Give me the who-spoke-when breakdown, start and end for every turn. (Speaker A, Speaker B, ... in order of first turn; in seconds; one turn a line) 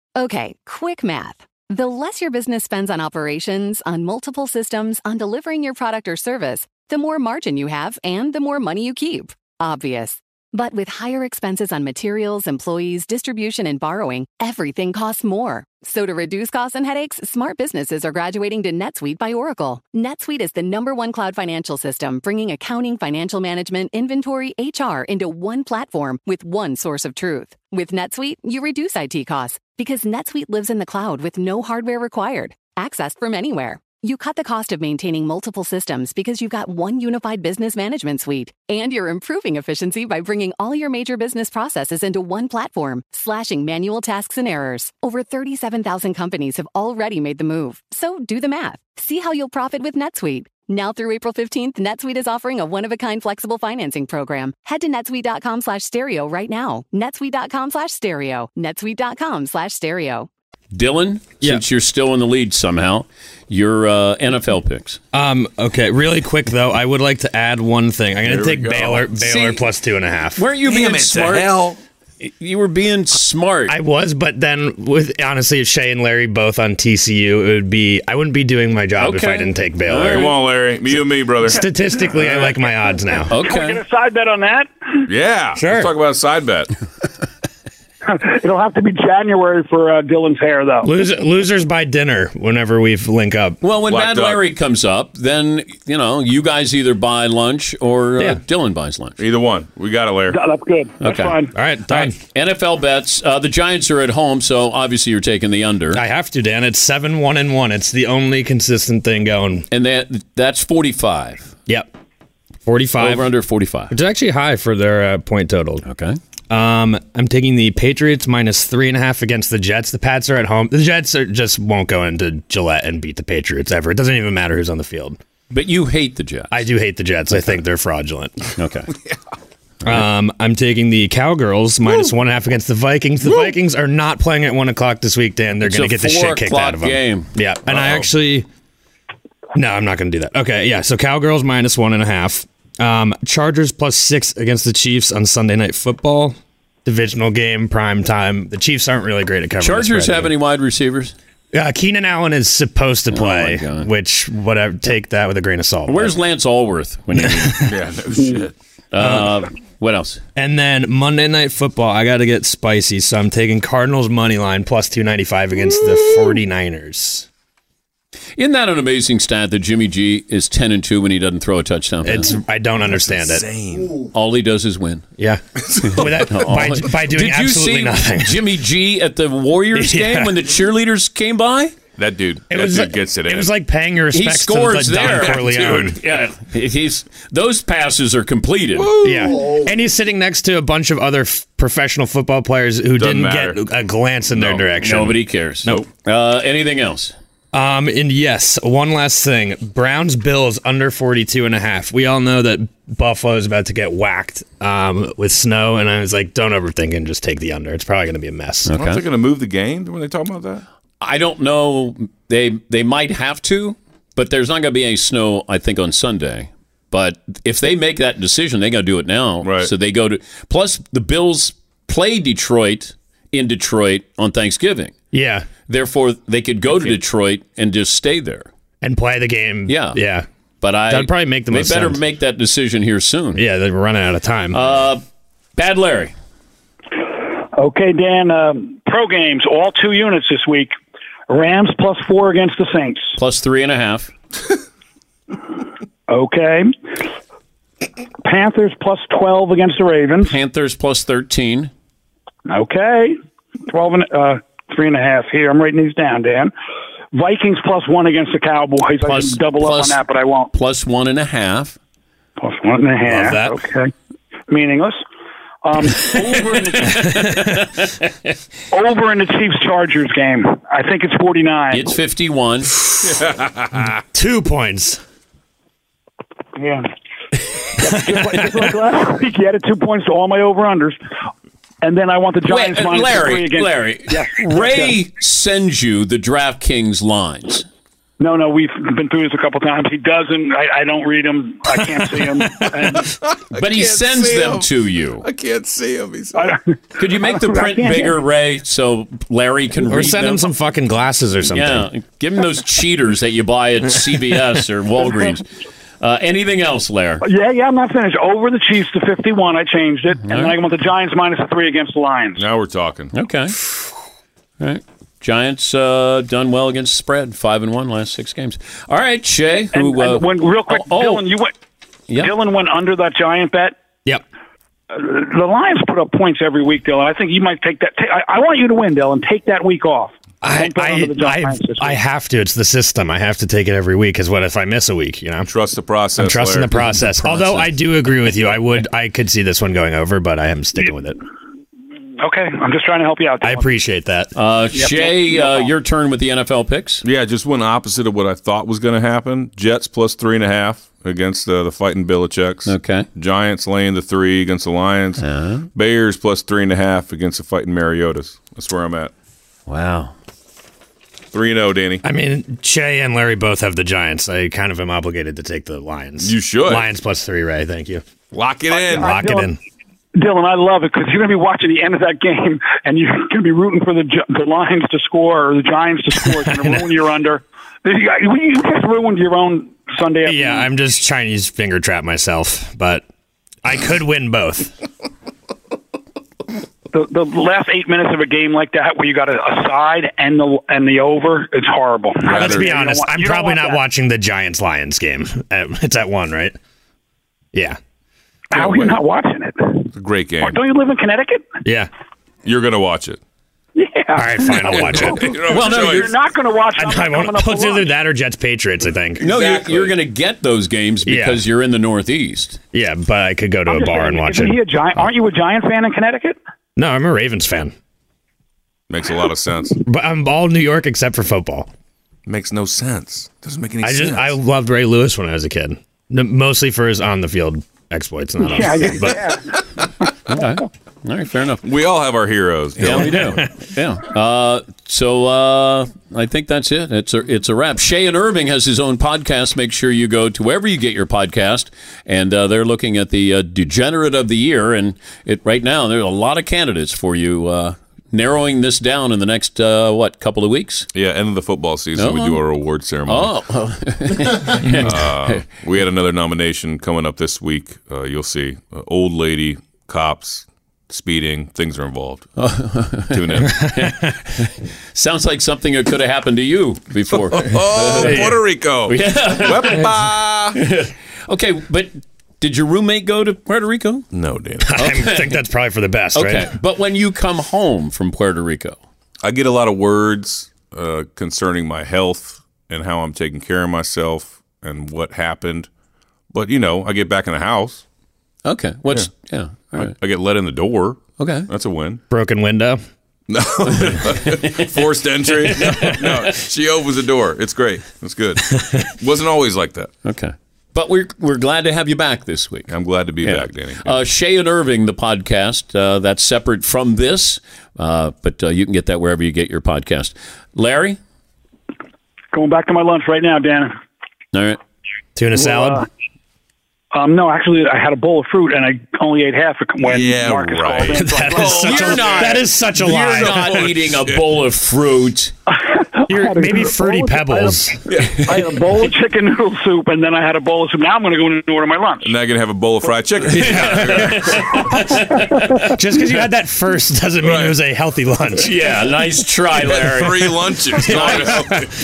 Speaker A: 0.2-60.3
Speaker B: 60.7-65.0
Speaker C: 65.1-70.4
Speaker D: 68.2-69.1
Speaker B: 69.2-69.6
Speaker B: 70.4-71.6
Speaker D: 70.6-71.8
Speaker B: 72.2-73.8
Speaker C: 73.7-80.4
Speaker B: 79.0-80.3
Speaker D: 80.0-81.7
Speaker C: 81.5-83.3
Speaker E: 83.2-85.1
Speaker B: 83.3-83.8
Speaker D: 85.1-86.7
Speaker C: 85.6-85.9
Speaker E: 88.0-90.9
Speaker C: 90.8-93.6
Speaker B: 93.6-99.2
Speaker D: 93.9-94.4
Speaker D: 99.2-100.4
Speaker E: 100.3-101.5
Speaker B: 101.0-101.4
Speaker C: 101.5-102.2
Speaker B: 101.9-106.0
Speaker C: 105.9-109.7
Speaker B: 109.7-111.5
Speaker C: 112.7-113.3
Speaker B: 113.0-113.9
Speaker C: 113.9-115.8
Speaker B: 115.8-116.2
Speaker C: 116.5-125.2
Speaker B: 125.5-126.7
Speaker C: 126.5-128.5
Speaker B: 128.6-128.9
Speaker C: 129.8-138.5
Speaker B: 135.6-137.3
Speaker D: 137.7-138.0
Speaker C: 139.5-150.3
Speaker B: 149.6-151.1
Speaker C: 151.5-156.2
Speaker B: 153.1-153.9
Speaker B: 155.9-157.7
Speaker C: 157.2-157.7
Speaker D: 157.6-158.5
Speaker B: 158.9-160.2
Speaker C: 159.0-159.4
Speaker C: 160.4-167.3
Speaker B: 168.4-172.4
Speaker C: 172.1-173.4
Speaker D: 172.8-174.1
Speaker B: 174.1-175.1
Speaker C: 175.2-178.4
Speaker D: 175.6-176.1
Speaker B: 175.8-181.8
Speaker C: 179.7-180.4
Speaker D: 182.0-183.5
Speaker C: 182.5-186.0
Speaker B: 184.1-188.9
Speaker D: 185.2-185.9
Speaker D: 188.8-189.7
Speaker C: 189.0-195.8
Speaker D: 193.0-193.6
Speaker D: 194.3-194.6
Speaker B: 194.8-197.1
Speaker C: 197.5-208.7
Speaker B: 208.7-209.0
Speaker D: 208.8-210.6
Speaker B: 211.0-224.9
Speaker D: 219.4-219.7
Speaker C: 225.1-225.5
Speaker B: 225.7-228.5
Speaker C: 228.8-230.3
Speaker B: 229.7-230.0
Speaker B: 230.6-233.4
Speaker C: 230.9-232.0
Speaker C: 233.3-234.6
Speaker B: 234.5-235.0
Speaker B: 235.6-236.1
Speaker E: 237.1-240.7
Speaker E: 241.3-243.2
Speaker B: 243.2-244.1
Speaker E: 246.1-247.0
Speaker E: 248.2-250.3
Speaker B: 250.2-251.7
Speaker E: 252.5-253.2
Speaker E: 253.7-256.5
Speaker E: 257.1-260.5
Speaker B: 259.0-261.8
Speaker E: 262.4-263.9
Speaker C: 263.1-263.6
Speaker E: 264.5-265.0
Speaker E: 265.6-267.1
Speaker B: 266.0-268.1
Speaker C: 267.0-267.4
Speaker E: 268.7-271.9
Speaker B: 271.7-272.8
Speaker D: 273.0-273.9
Speaker C: 274.1-275.0
Speaker E: 276.6-276.9
Speaker E: 277.8-281.0
Speaker C: 277.8-278.6
Speaker E: 281.8-284.9
Speaker B: 282.5-287.7
Speaker E: 288.2-293.1
Speaker D: 292.9-296.6
Speaker B: 293.6-295.2
Speaker E: 296.4-296.6
Speaker B: 297.0-300.5
Speaker E: 297.3-298.2
Speaker C: 299.9-301.9
Speaker B: 301.5-305.5
Speaker B: 306.0-307.2
Speaker E: 307.2-312.4
Speaker B: 310.2-310.6
Speaker D: 312.4-313.1
Speaker B: 313.1-313.6
Speaker B: 314.6-321.3
Speaker E: 319.7-321.5
Speaker E: 322.1-323.8
Speaker E: 324.9-332.0
Speaker C: 330.4-335.5
Speaker D: 335.5-336.8
Speaker C: 336.2-341.2
Speaker B: 336.9-337.7
Speaker E: 342.2-343.7
Speaker C: 343.4-344.3
Speaker B: 344.4-347.0
Speaker E: 344.7-345.7
Speaker D: 347.0-355.2
Speaker B: 352.7-353.1
Speaker B: 355.2-355.7
Speaker D: 355.7-359.1
Speaker B: 359.7-360.1
Speaker D: 361.3-362.0
Speaker C: 362.0-368.0
Speaker D: 366.2-366.9
Speaker D: 368.3-369.1
Speaker E: 368.7-369.5
Speaker C: 368.9-369.6
Speaker E: 370.2-380.7
Speaker C: 376.4-376.9
Speaker C: 380.3-383.0
Speaker C: 383.6-384.7
Speaker E: 386.9-393.8
Speaker D: 392.3-392.7
Speaker C: 392.3-396.6
Speaker C: 397.5-397.8
Speaker E: 398.5-401.4
Speaker D: 398.5-398.9
Speaker D: 399.9-400.6
Speaker D: 402.4-403.2
Speaker E: 403.8-407.9
Speaker C: 404.1-405.4
Speaker D: 404.7-406.1
Speaker B: 405.5-406.1
Speaker C: 406.8-409.2
Speaker B: 409.2-412.6
Speaker D: 409.2-410.0
Speaker C: 411.1-411.4
Speaker C: 412.7-414.6
Speaker E: 413.7-416.4
Speaker C: 416.8-417.7
Speaker D: 418.9-419.8
Speaker C: 419.8-421.7
Speaker D: 422.3-424.4
Speaker C: 423.8-429.2
Speaker E: 428.4-429.6
Speaker B: 430.3-431.6
Speaker D: 431.6-433.5
Speaker B: 432.8-450.9
Speaker D: 450.9-453.3
Speaker B: 452.0-452.4
Speaker B: 453.1-455.4
Speaker D: 454.5-462.4
Speaker B: 462.4-468.4
Speaker D: 463.1-463.8
Speaker D: 467.1-470.6
Speaker C: 468.0-468.3
Speaker B: 468.9-469.9
Speaker B: 470.6-474.1
Speaker D: 474.1-474.8
Speaker C: 474.7-476.6
Speaker B: 474.8-475.4
Speaker B: 476.1-478.8
Speaker D: 479.2-485.7
Speaker D: 486.3-487.8
Speaker B: 488.4-489.9
Speaker D: 489.8-492.0
Speaker B: 491.2-491.5
Speaker C: 492.1-492.8
Speaker D: 493.3-499.9
Speaker B: 493.6-494.7
Speaker B: 495.4-496.3
Speaker B: 500.0-502.7
Speaker D: 502.7-504.0
Speaker B: 503.2-511.0
Speaker E: 512.3-513.7
Speaker B: 514.3-514.6
Speaker C: 515.2-515.9
Speaker E: 515.3-515.9
Speaker E: 516.9-522.3
Speaker D: 519.8-522.2
Speaker C: 521.0-523.6
Speaker B: 521.4-525.3
Speaker D: 523.0-524.2
Speaker E: 525.5-532.1
Speaker C: 526.1-527.8
Speaker D: 527.9-528.5
Speaker D: 532.0-534.7
Speaker C: 533.3-534.4
Speaker B: 533.3-535.8
Speaker C: 535.6-538.5
Speaker D: 537.2-537.6
Speaker B: 538.4-540.3
Speaker D: 539.5-541.8
Speaker C: 540.0-541.7
Speaker B: 540.8-541.5